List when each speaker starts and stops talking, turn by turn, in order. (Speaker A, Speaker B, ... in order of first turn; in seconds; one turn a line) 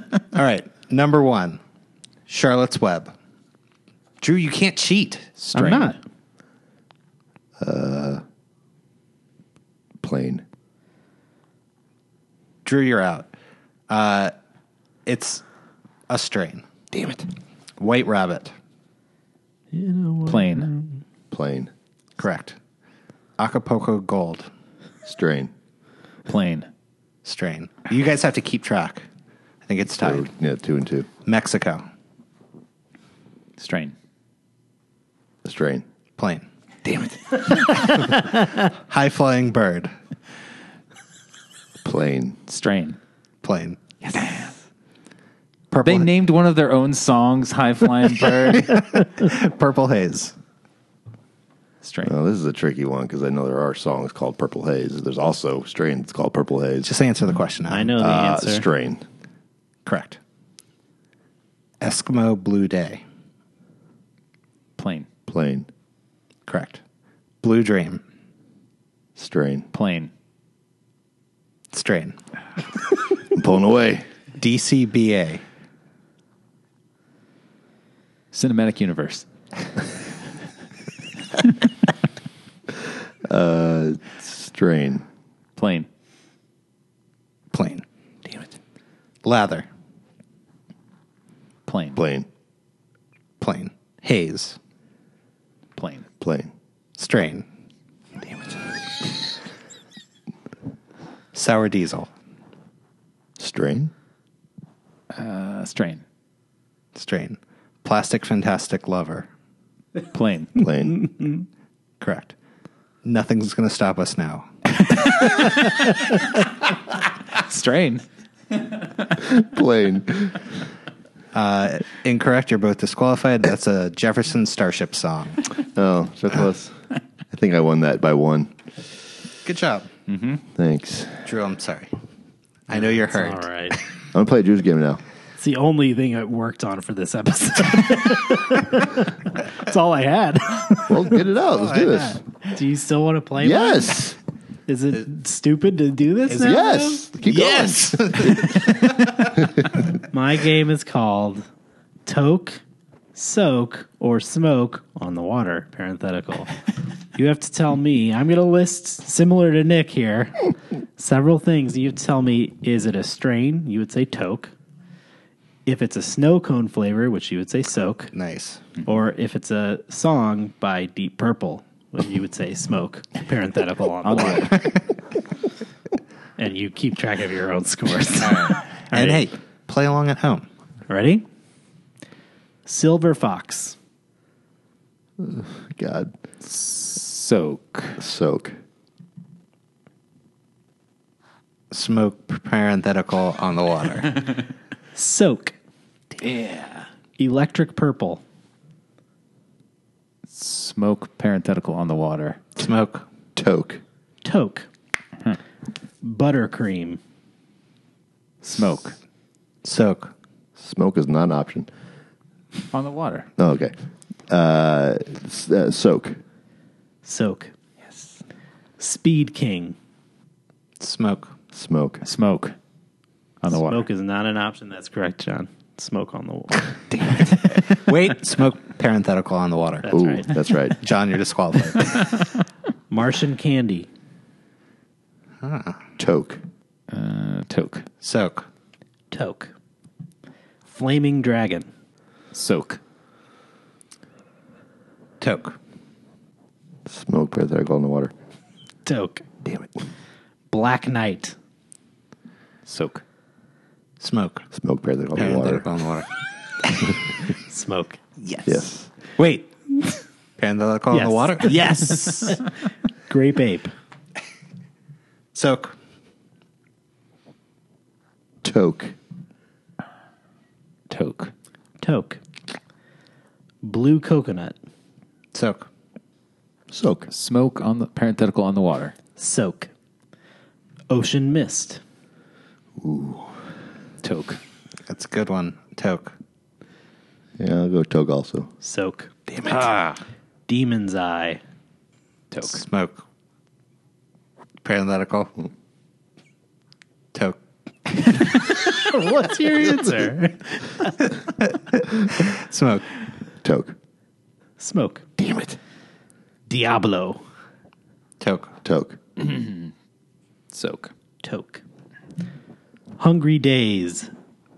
Speaker A: 0.3-1.6
Speaker A: 2.3-3.1
Speaker A: 4.2-5.3
Speaker B: 5.4-6.0
Speaker C: 5.5-6.0
Speaker D: 7.6-8.2
Speaker D: 10.0-10.4
Speaker A: 12.6-13.3
Speaker A: 13.9-14.3
Speaker A: 15.1-15.4
Speaker A: 16.1-16.6
Speaker D: 16.9-17.2
Speaker A: 17.8-18.5
Speaker C: 19.7-21.0
Speaker B: 20.3-20.7
Speaker D: 21.3-21.7
Speaker A: 22.2-22.6
Speaker A: 23.4-24.5
Speaker D: 25.0-25.5
Speaker B: 26.3-26.7
Speaker A: 27.2-29.0
Speaker A: 29.6-30.3
Speaker D: 30.0-31.1
Speaker A: 31.2-31.8
Speaker B: 33.6-33.9
Speaker D: 35.4-35.8
Speaker A: 36.2-36.5
Speaker D: 36.8-37.7
Speaker A: 37.9-39.9
Speaker D: 41.8-42.4
Speaker B: 42.5-43.0
Speaker A: 43.4-43.8
Speaker B: 44.0-44.5
Speaker A: 45.7-46.1
Speaker B: 45.8-48.8
Speaker A: 48.2-50.3
Speaker B: 51.8-52.1
Speaker D: 52.0-56.9
Speaker A: 56.8-58.1
Speaker C: 57.7-58.7
Speaker D: 58.0-59.0
Speaker A: 59.9-60.2
Speaker A: 61.8-63.0
Speaker B: 64.8-65.1
Speaker D: 65.3-65.7
Speaker A: 66.5-66.8
Speaker A: 67.4-68.0
Speaker D: 69.2-69.7
Speaker B: 69.7-70.1
Speaker A: 71.7-72.2
Speaker D: 73.3-74.0
Speaker A: 74.4-75.4
Speaker B: 78.3-79.2
Speaker D: 83.2-85.0
Speaker B: 85.6-85.9
Speaker A: 87.5-87.8
Speaker A: 89.2-89.7
Speaker B: 91.7-92.0
Speaker D: 92.0-92.3
Speaker A: 93.4-94.6
Speaker B: 95.8-96.0
Speaker D: 96.2-96.5
Speaker A: 97.0-97.4
Speaker A: 101.3-102.1
Speaker D: 103.4-103.9
Speaker B: 105.1-106.0
Speaker A: 106.9-109.3
Speaker B: 110.1-110.6
Speaker D: 110.5-111.1
Speaker A: 112.0-112.3
Speaker A: 113.0-114.5
Speaker B: 114.8-116.4
Speaker B: 117.3-118.0
Speaker B: 118.6-119.1
Speaker D: 119.2-120.4
Speaker A: 121.3-125.4
Speaker D: 125.7-126.7
Speaker D: 127.3-128.5
Speaker A: 129.4-129.9
Speaker B: 130.1-130.4
Speaker D: 130.6-131.3
Speaker A: 131.2-131.9
Speaker A: 132.7-133.5
Speaker C: 132.7-133.8
Speaker D: 134.1-135.0
Speaker C: 135.4-141.3
Speaker D: 140.8-142.2
Speaker A: 141.5-142.0
Speaker C: 142.0-144.0
Speaker D: 143.4-144.2
Speaker C: 144.7-147.0
Speaker D: 146.3-148.6
Speaker A: 147.2-149.4
Speaker D: 149.4-149.6
Speaker C: 150.1-151.4
Speaker C: 152.1-152.6
Speaker C: 153.1-156.5
Speaker C: 157.1-160.4
Speaker C: 161.0-164.5
Speaker C: 165.7-168.1
Speaker A: 168.1-168.6
Speaker C: 168.8-174.6
Speaker C: 176.4-179.2
Speaker A: 178.2-180.4
Speaker C: 180.9-181.2
Speaker C: 182.7-183.8
Speaker D: 185.2-186.1
Speaker B: 186.4-188.0
Speaker D: 188.0-188.6
Speaker A: 191.7-194.2
Speaker C: 194.9-195.5
Speaker B: 196.2-196.9
Speaker C: 197.2-198.2
Speaker B: 200.3-202.4
Speaker A: 202.6-203.0
Speaker D: 203.3-203.8
Speaker C: 204.2-204.7
Speaker C: 206.0-207.0
Speaker B: 208.4-208.9
Speaker A: 209.6-210.1
Speaker D: 210.6-211.7
Speaker B: 212.7-213.3
Speaker D: 213.4-213.7
Speaker D: 214.3-216.2
Speaker C: 217.0-217.5
Speaker C: 218.8-219.8
Speaker A: 220.8-221.3
Speaker D: 221.5-222.0
Speaker B: 222.0-222.5
Speaker B: 223.4-223.9
Speaker C: 223.5-226.8
Speaker A: 227.7-229.9
Speaker C: 229.8-230.3
Speaker D: 229.9-230.8
Speaker A: 230.8-232.2
Speaker C: 232.9-233.9
Speaker A: 235.4-235.8
Speaker D: 236.0-236.4
Speaker B: 236.9-237.9
Speaker A: 238.0-238.4
Speaker C: 239.1-239.5
Speaker C: 240.7-241.7
Speaker B: 242.3-242.8
Speaker A: 245.2-245.6
Speaker D: 246.9-248.1
Speaker C: 248.8-249.2
Speaker D: 249.4-249.7
Speaker C: 250.5-251.3
Speaker B: 252.7-253.0
Speaker A: 254.0-254.4
Speaker D: 254.5-255.6
Speaker A: 255.2-256.1
Speaker A: 256.6-256.9
Speaker C: 257.5-258.0
Speaker A: 258.2-259.5
Speaker D: 258.4-258.9
Speaker A: 260.4-261.8
Speaker C: 260.9-262.5
Speaker C: 263.1-263.7
Speaker A: 265.3-265.7
Speaker D: 268.4-268.9
Speaker B: 270.9-271.3
Speaker C: 271.8-272.2
Speaker C: 273.6-274.6
Speaker A: 275.3-275.7
Speaker D: 276.7-277.1
Speaker B: 277.1-278.9
Speaker C: 279.2-279.7
Speaker C: 280.9-281.8
Speaker D: 282.8-283.3
Speaker B: 284.0-284.4
Speaker A: 284.9-286.1
Speaker D: 287.4-288.5
Speaker C: 288.6-289.1
Speaker B: 289.5-290.0
Speaker C: 290.5-291.4
Speaker B: 292.3-292.6
Speaker A: 292.4-293.0
Speaker A: 294.6-295.3
Speaker A: 297.1-297.4
Speaker C: 298.7-300.9
Speaker A: 301.4-302.8
Speaker D: 303.4-303.8
Speaker C: 304.6-305.1
Speaker D: 305.2-305.6
Speaker C: 306.5-307.2
Speaker A: 308.2-308.5
Speaker D: 308.6-309.0
Speaker B: 309.2-309.7
Speaker B: 310.5-310.9
Speaker C: 311.2-311.6
Speaker C: 313.0-314.1